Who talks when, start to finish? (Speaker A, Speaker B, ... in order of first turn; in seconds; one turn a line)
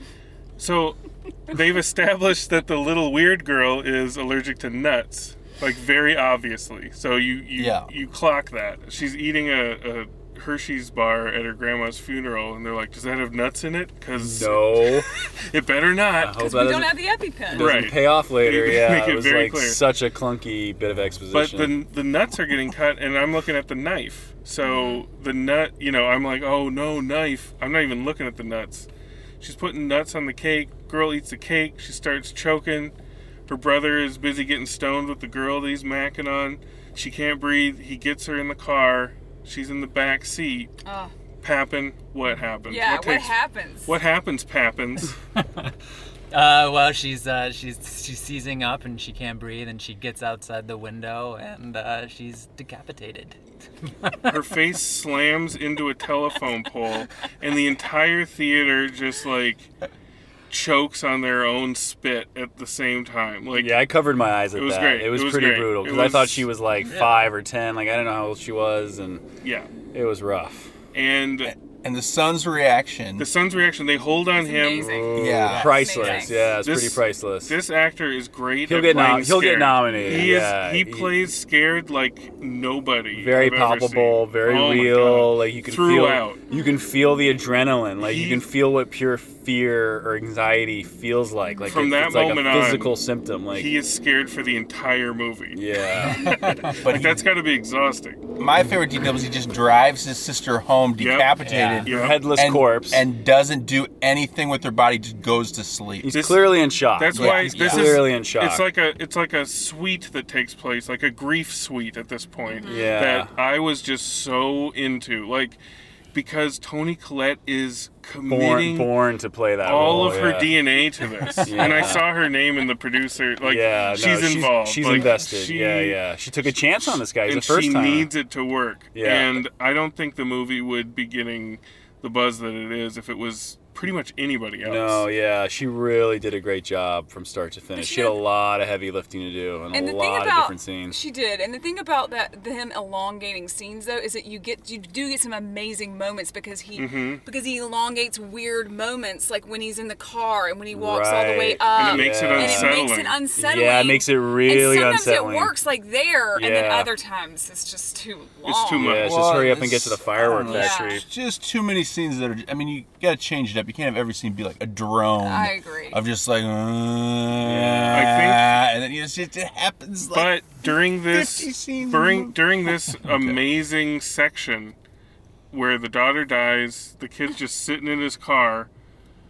Speaker A: 0.6-16.6
Speaker B: 7.6-7.9
Speaker C: 14.1-15.1
Speaker C: 16.2-21.7
Speaker D: 16.4-17.7
Speaker A: 17.5-19.8
Speaker A: 21.3-28.9
Speaker D: 24.6-25.0
Speaker A: 29.4-32.9
Speaker A: 33.5-40.8
Speaker D: 40.9-41.1
Speaker A: 41.4-45.2
Speaker D: 42.7-44.0
Speaker E: 45.4-45.7
Speaker E: 46.3-53.4
Speaker A: 54.3-59.7
Speaker A: 60.5-63.9
Speaker C: 63.5-69.2
Speaker A: 64.5-66.5
Speaker E: 66.9-67.2
Speaker A: 69.4-69.7
Speaker C: 69.9-70.7
Speaker A: 70.9-71.5
Speaker B: 71.5-73.3
Speaker A: 73.2-74.9
Speaker D: 74.4-76.6
Speaker C: 74.8-77.5
Speaker B: 75.2-75.9
Speaker E: 75.5-76.2
Speaker A: 76.6-86.4
Speaker C: 78.7-81.1
Speaker C: 83.1-93.7
Speaker D: 86.5-86.8
Speaker A: 88.0-88.5
Speaker A: 91.7-93.0
Speaker A: 93.5-98.2
Speaker C: 95.5-96.3
Speaker E: 96.3-96.8
Speaker B: 96.8-97.2
Speaker B: 98.4-106.1
Speaker A: 101.0-102.2
Speaker C: 101.5-103.0
Speaker C: 106.0-108.7
Speaker A: 106.1-115.6
Speaker B: 107.1-108.1
Speaker D: 112.5-112.9
Speaker C: 112.7-113.3
Speaker A: 116.1-119.0
Speaker C: 118.3-120.6
Speaker A: 119.6-135.1
Speaker C: 121.5-122.1
Speaker C: 123.4-128.1
Speaker C: 128.9-129.3
Speaker C: 134.6-141.0
Speaker D: 137.8-138.2
Speaker D: 139.7-159.1
Speaker A: 146.8-147.2
Speaker C: 150.7-152.8
Speaker A: 151.8-153.2
Speaker C: 153.4-155.5
Speaker C: 156.3-156.9
Speaker A: 158.4-159.3
Speaker C: 158.7-161.1
Speaker B: 159.0-173.4
Speaker D: 160.5-161.0
Speaker D: 165.2-166.0
Speaker C: 167.4-168.1
Speaker A: 167.9-168.6
Speaker A: 170.1-174.8
Speaker A: 175.5-178.7